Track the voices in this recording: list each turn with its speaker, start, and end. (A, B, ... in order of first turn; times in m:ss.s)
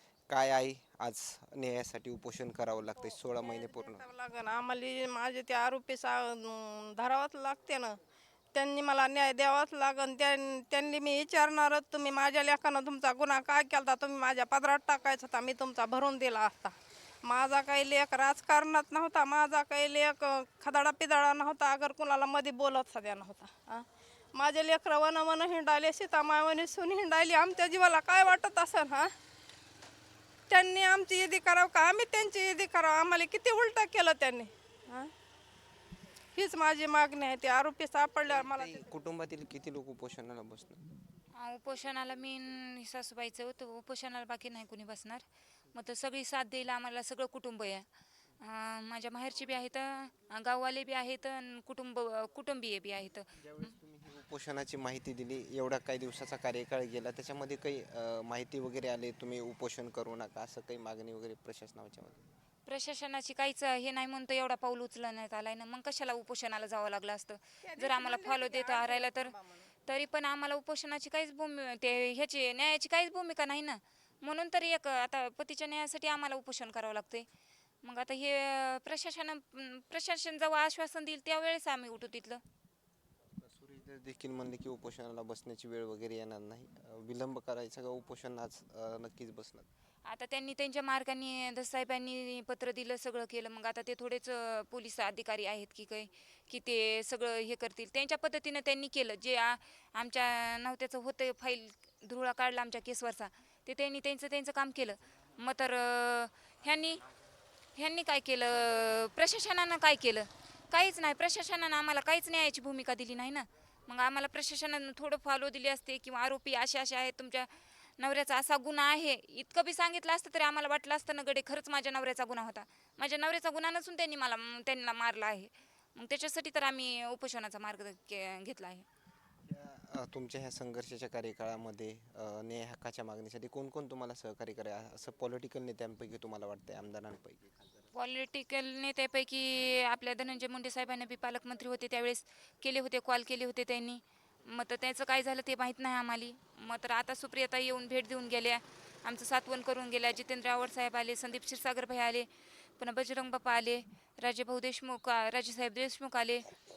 0:00.3-0:04.1 A
0:03.3-0:08.0 B
0:08.5-0:29.1 B
0:30.5-0:35.1 B
0:36.3-0:38.9 B
0:38.3-0:40.8 A
0:41.4-0:47.9 C
0:48.4-0:53.7 C
0:53.3-1:02.3 A
1:02.7-1:09.3 C
1:07.6-1:09.7 B
1:09.9-1:17.3 C
1:17.8-1:22.4 C
1:23.4-1:29.7 A
1:30.1-1:47.0 C
1:47.8-2:08.9 C
2:09.4-2:17.9 A
2:17.9-2:36.5 C